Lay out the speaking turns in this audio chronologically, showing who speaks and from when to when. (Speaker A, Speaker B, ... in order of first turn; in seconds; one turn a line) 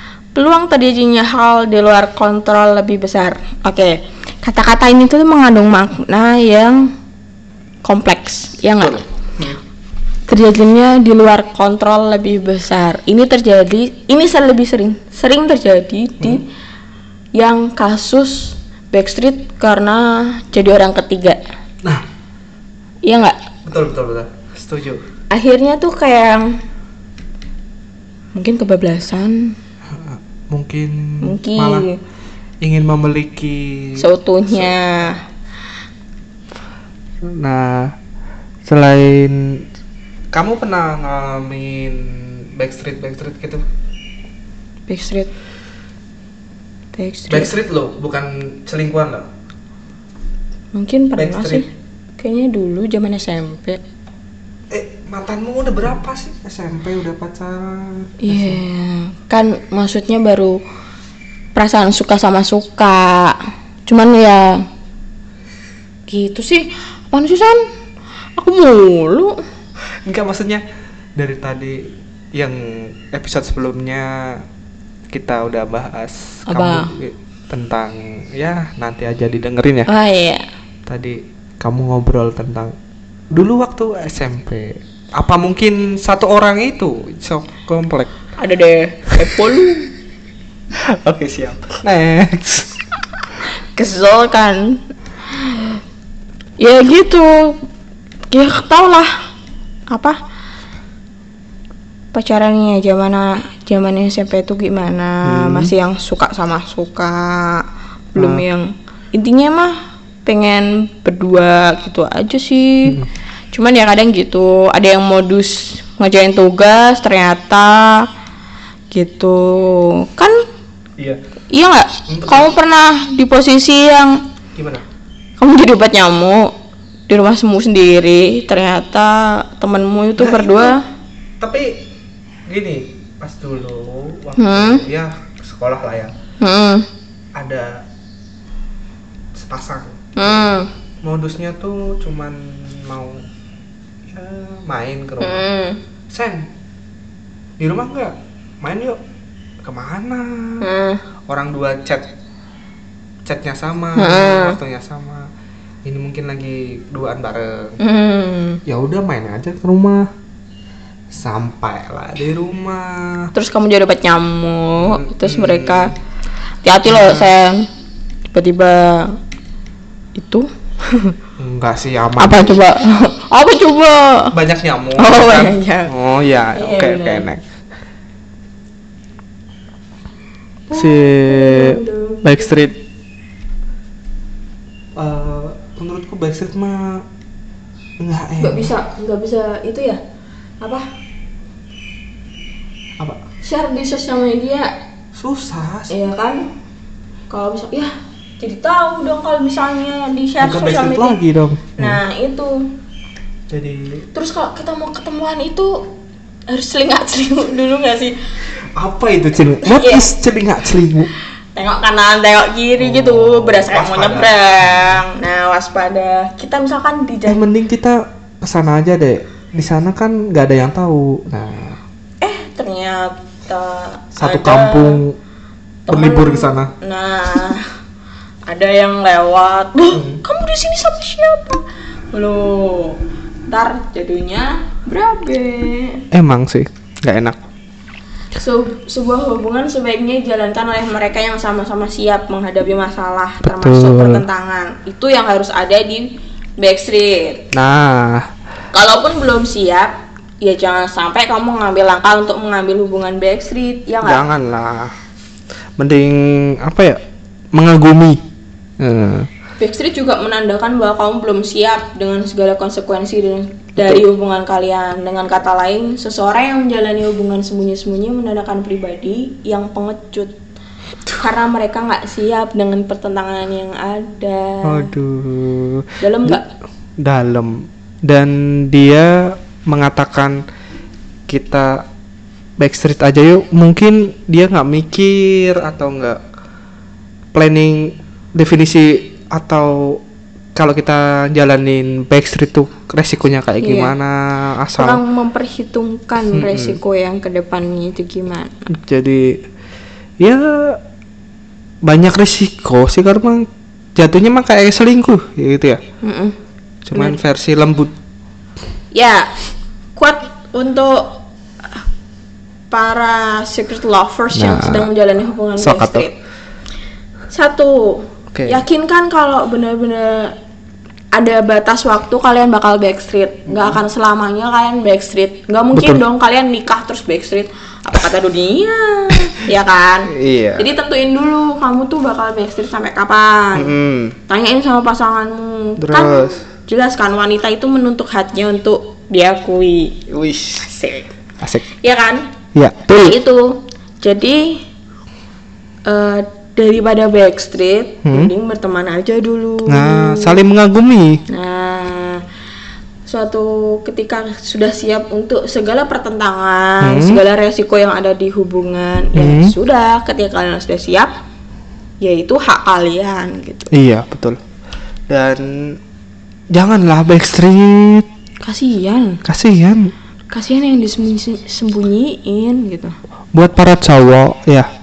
Speaker A: 0.3-6.9
Speaker A: 7.8-9.0
Speaker B: 8.8-9.6
Speaker A: 10.3-16.4
Speaker B: 16.2-16.4
Speaker A: 17.3-21.4
Speaker A: 23.0-23.4
Speaker B: 23.6-25.0
Speaker A: 25.3-26.6
Speaker A: 28.3-29.6
Speaker B: 29.9-31.9
Speaker A: 31.2-32.0
Speaker B: 32.6-34.8
Speaker A: 34.0-35.2
Speaker B: 37.2-37.9
Speaker B: 38.6-39.6
Speaker B: 40.3-43.6
Speaker A: 44.9-45.3
Speaker A: 46.9-47.5
Speaker B: 47.3-49.3
Speaker A: 50.7-51.6
Speaker B: 51.1-51.6
Speaker A: 52.2-53.8
Speaker B: 54.7-58.6
Speaker A: 58.2-60.6
Speaker A: 61.5-64.6
Speaker A: 66.1-67.6
Speaker A: 68.4-69.4
Speaker B: 70.0-70.6
Speaker B: 71.2-74.4
Speaker B: 75.1-79.9
Speaker A: 76.5-76.9
Speaker A: 79.9-80.4
Speaker B: 80.8-82.7
Speaker B: 83.3-88.1
Speaker A: 88.4-89.9
Speaker B: 90.8-92.8
Speaker A: 93.7-95.8
Speaker A: 96.6-97.6
Speaker A: 98.3-99.1
Speaker A: 99.9-100.2
Speaker A: 102.1-109.7
Speaker B: 105.2-105.7
Speaker B: 108.2-108.4
Speaker A: 110.2-113.0
Speaker A: 113.5-118.1
Speaker A: 118.9-120.4
Speaker A: 121.5-124.2
Speaker B: 122.1-122.5
Speaker B: 124.5-124.8
Speaker A: 125.4-126.5
Speaker A: 127.1-130.8
Speaker B: 130.2-130.8
Speaker B: 131.4-131.8
Speaker B: 132.5-136.1
Speaker A: 134.4-134.8
Speaker A: 136.4-136.8
Speaker B: 137.3-137.8
Speaker B: 139.3-140.4
Speaker A: 140.2-140.7
Speaker B: 141.0-143.2
Speaker B: 144.1-145.4
Speaker A: 145.2-145.8
Speaker B: 146.1-146.5
Speaker B: 147.6-149.0
Speaker B: 149.6-150.6
Speaker A: 150.6-151.0
Speaker B: 151.3-152.1
Speaker B: 153.2-155.3
Speaker A: 153.9-154.6
Speaker B: 155.8-157.8
Speaker A: 157.8-158.6
Speaker B: 158.6-160.1
Speaker B: 161.1-163.3
Speaker A: 163.3-165.9
Speaker B: 164.8-165.9
Speaker A: 166.6-167.7
Speaker B: 166.8-167.3
Speaker A: 168.3-169.2
Speaker A: 170.1-171.1
Speaker B: 171.4-172.6
Speaker A: 172.2-174.3
Speaker B: 174.3-177.4
Speaker A: 175.0-175.9
Speaker A: 176.5-177.2
Speaker A: 180.7-182.5
Speaker B: 180.7-182.8
Speaker B: 184.9-187.0
Speaker B: 188.0-188.7
Speaker A: 188.4-190.0
Speaker A: 190.6-190.9
Speaker A: 193.4-194.7
Speaker B: 195.1-196.0
Speaker A: 195.9-196.5
Speaker A: 197.3-201.2
Speaker B: 200.4-202.0
Speaker A: 201.8-202.7
Speaker B: 203.5-204.0
Speaker A: 204.1-205.8
Speaker A: 206.5-208.2
Speaker B: 208.7-211.1
Speaker A: 209.6-210.1
Speaker A: 211.6-217.4
Speaker B: 212.8-215.0
Speaker B: 217.3-221.8
Speaker A: 222.2-225.0
Speaker B: 224.2-225.1
Speaker A: 225.9-227.7
Speaker B: 225.9-226.7
Speaker A: 228.5-231.6
Speaker B: 229.9-230.2
Speaker A: 232.1-236.0
Speaker B: 236.1-237.4
Speaker A: 238.3-247.4
Speaker B: 243.4-244.2
Speaker B: 247.5-248.3
Speaker A: 248.7-254.2
Speaker B: 254.0-254.9
Speaker B: 255.8-257.0
Speaker B: 257.5-258.2
Speaker B: 258.8-259.3
Speaker A: 259.6-270.3
Speaker B: 263.8-264.0
Speaker A: 271.1-274.9
Speaker B: 274.6-276.4
Speaker A: 276.0-276.4
Speaker B: 277.0-280.4
Speaker B: 281.3-281.8
Speaker B: 282.6-286.2
Speaker B: 287.3-290.0
Speaker B: 290.5-295.0
Speaker A: 293.6-293.9
Speaker A: 294.8-298.7
Speaker B: 296.3-296.8
Speaker B: 298.7-299.4
Speaker B: 300.2-300.8
Speaker B: 301.8-305.8
Speaker A: 306.0-306.3
Speaker B: 306.8-307.9
Speaker A: 308.9-309.3
Speaker A: 309.9-311.2
Speaker A: 312.7-316.1
Speaker B: 314.3-314.9
Speaker B: 315.6-316.1
Speaker A: 317.3-320.3
Speaker B: 318.3-318.6
Speaker A: 321.1-333.7
Speaker B: 323.5-323.8
Speaker B: 325.7-326.0
Speaker B: 330.1-330.7
Speaker B: 333.5-334.2
Speaker A: 334.3-340.0
Speaker B: 335.8-336.4
Speaker B: 340.1-340.7
Speaker A: 340.6-341.1
Speaker B: 341.4-341.7
Speaker A: 341.7-342.3
Speaker B: 342.5-343.1
Speaker A: 342.9-344.6
Speaker A: 345.9-350.4
Speaker B: 348.0-348.3
Speaker B: 349.6-351.2
Speaker A: 351.3-352.2
Speaker A: 353.1-361.1
Speaker B: 356.8-357.2
Speaker B: 359.1-359.5
Speaker A: 362.0-363.7
Speaker B: 363.7-364.4
Speaker B: 365.1-365.8
Speaker B: 366.5-368.1
Speaker A: 368.4-369.2
Speaker B: 369.2-369.9
Speaker A: 370.3-372.9
Speaker B: 373.3-374.7